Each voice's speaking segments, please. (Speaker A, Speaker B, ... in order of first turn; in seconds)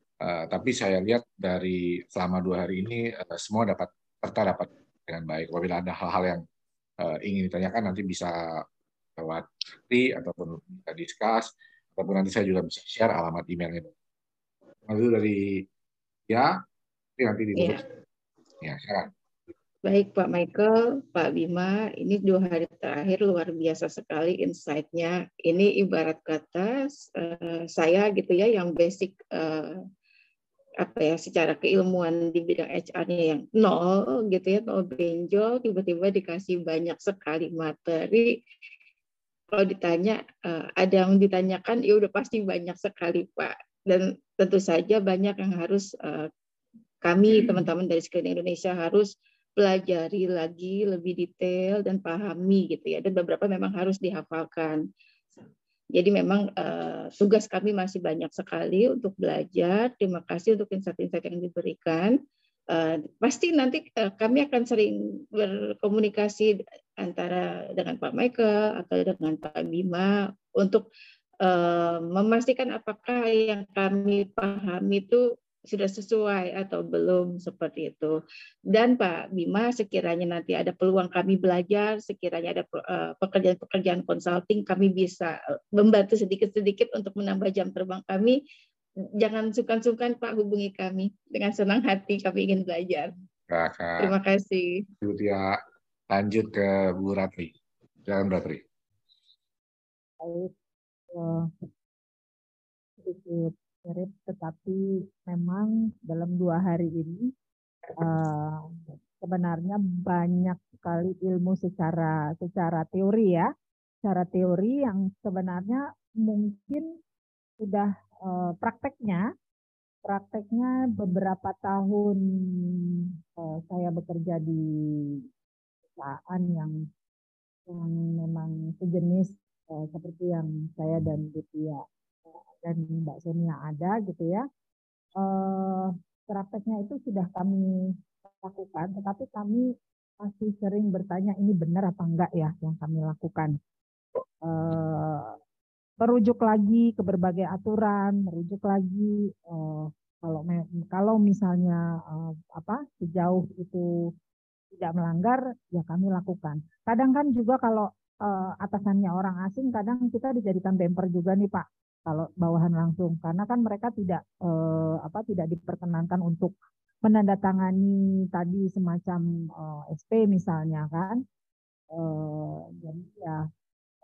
Speaker A: 0.2-6.4, 7.0-8.6, 9.2-13.9, 14.9-15.7, 17.2-17.8, 18.6-19.1, 93.5-94.2, 95.0-95.6, 96.1-97.5, 98.1-98.6
Speaker B: 17.6-17.8, 19.8-29.8, 30.8-38.4, 39.5-46.3, 47.0-54.8, 56.0-62.1, 62.7-70.9, 71.4-78.2, 78.7-88.4, 89.2-93.1, 94.0-94.9
Speaker C: 100.2-100.5, 101.1-101.5, 103.0-107.3, 108.0-113.5, 114.0-116.9, 117.6-119.3, 120.1-122.8, 123.4-125.1, 126.0-126.8, 127.7-134.5, 135.2-137.7, 138.4-139.7, 140.2-143.6, 144.4-145.4, 146.0-153.9, 154.7-171.2, 171.9-173.4